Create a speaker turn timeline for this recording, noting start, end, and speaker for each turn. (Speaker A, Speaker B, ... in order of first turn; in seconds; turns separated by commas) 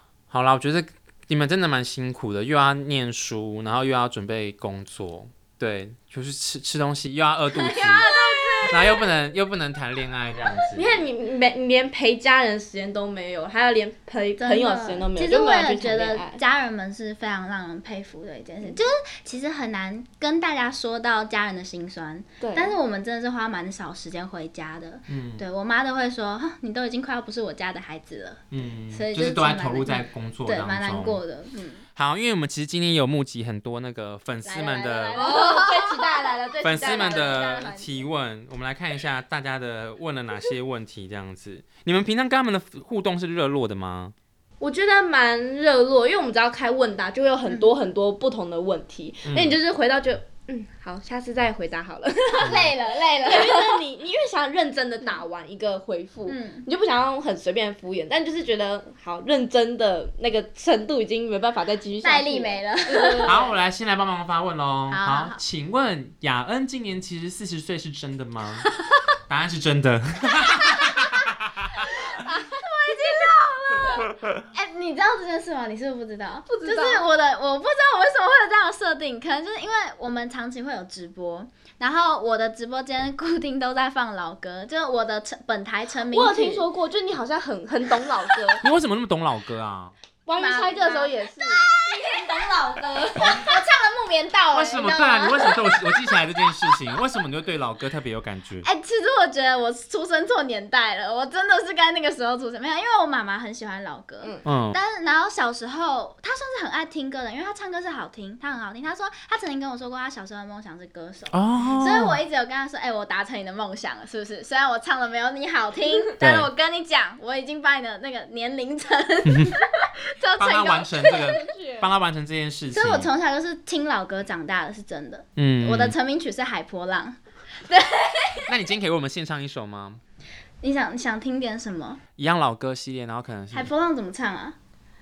Speaker A: 0.3-8.1, Speaker B: 7.6-9.1, Speaker C: 7.8-8.8, Speaker A: 8.7-11.0, Speaker B: 10.8-16.4, Speaker C: 14.4-31.9, Speaker B: 22.4-22.7, Speaker A: 25.1-25.4, Speaker A: 28.5-31.2, Speaker A: 32.0-35.4, Speaker C: 34.4-37.9, Speaker B: 35.1-37.8, Speaker A: 36.6-44.1, Speaker B: 44.6-52.7, Speaker A: 49.2-49.6, Speaker C: 52.3-53.8, Speaker B: 53.2-63.5, Speaker C: 56.3-56.6, Speaker C: 62.0-63.4, Speaker A: 63.2-68.7, Speaker C: 64.9-65.4, Speaker A: 69.3-71.9, Speaker C: 70.4-71.3, Speaker C: 71.8-86.6, Speaker B: 72.9-74.0, Speaker B: 76.5-77.1, Speaker B: 86.1-88.6, Speaker A: 88.6-89.9, Speaker B: 90.2-93.5, Speaker C: 90.4-92.4, Speaker C: 93.2-96.2, Speaker A: 94.5-98.7, Speaker C: 98.6-121.4, Speaker A: 104.4-104.8, Speaker A: 111.3-112.2, Speaker A: 116.2-116.5, Speaker A: 119.2-119.5, Speaker A: 120.4-123.1, Speaker B: 121.0-121.9, Speaker C: 122.7-128.5, Speaker A: 125.4-126.0, Speaker A: 128.5-130.0, Speaker C: 130.6-132.0, Speaker A: 132.2-133.7, Speaker C: 133.5-134.6